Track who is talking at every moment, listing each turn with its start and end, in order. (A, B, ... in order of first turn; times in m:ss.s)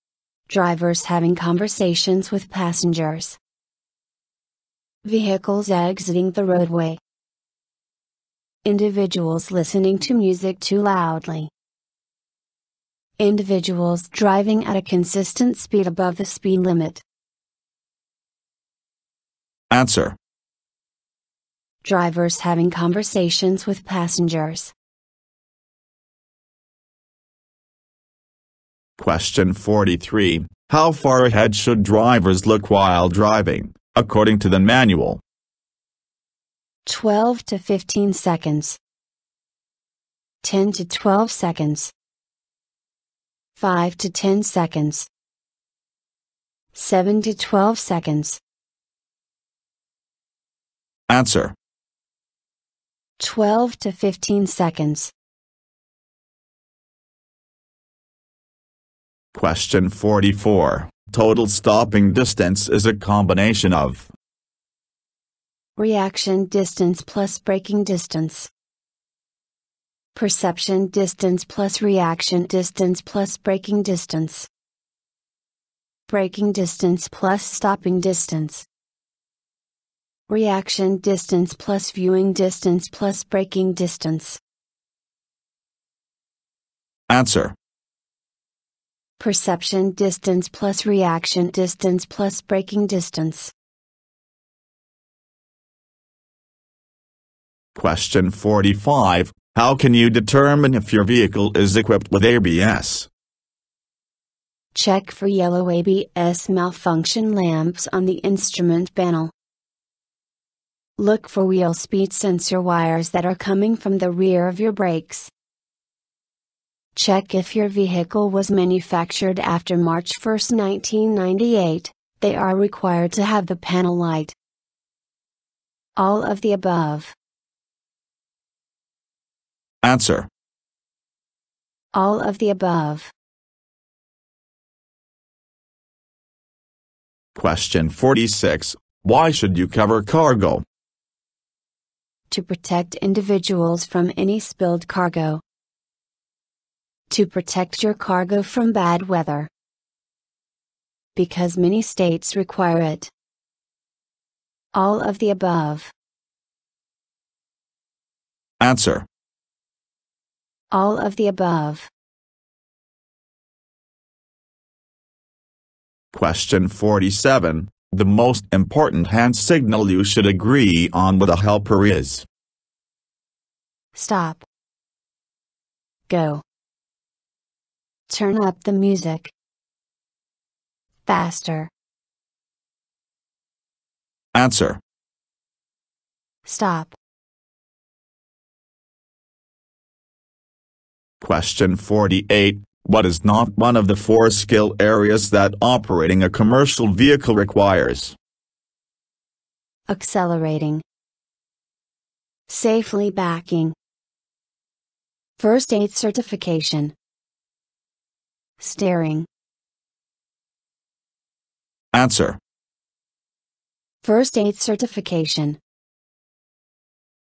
0:00.5-0:03.4 A
0:05.0-0:07.0 A
0:08.6-0:11.5 A
0:13.2-0:17.0 A
0:19.7-0:20.2 B
0:21.8-0:24.7 A
0:29.0-0:35.2 B
0:36.8-0:38.8 A
0:40.4-0:41.9 A
0:43.6-0:45.1 A
0:46.7-0:48.4 A
0:51.1-0:51.5 B
0:53.2-0:55.1 A
0:59.3-1:04.1 B
1:05.8-1:08.5 A
1:10.1-1:14.5 A
1:16.1-1:18.7 A
1:20.3-1:24.4 A
1:27.1-1:27.5 B
1:29.2-1:33.5 A
1:37.7-1:43.1 B
1:44.7-1:49.3 A
1:51.0-1:55.3 A
1:56.9-2:04.4 A
2:06.0-2:07.2 A
2:09.8-2:10.3 B
2:11.9-2:13.1 A
2:17.3-2:20.6 B
2:22.3-2:25.4 A
2:27.1-2:29.5 A
2:31.2-2:33.1 A
2:34.7-2:35.9 A
2:38.6-2:39.1 B
2:40.7-2:41.9 A
2:46.1-2:52.2 B
2:53.9-2:54.4 A
2:56.1-2:56.4 A
2:58.1-2:59.3 A
3:01.0-3:01.7 A
3:04.3-3:04.8 B
3:06.4-3:07.0 A
3:11.2-3:18.2 B
3:19.9-3:20.8 A
3:22.5-3:23.8 A
3:25.4-3:26.9 A
3:28.6-3:29.3 A
3:31.9-3:32.4 B
3:34.0-3:35.6 A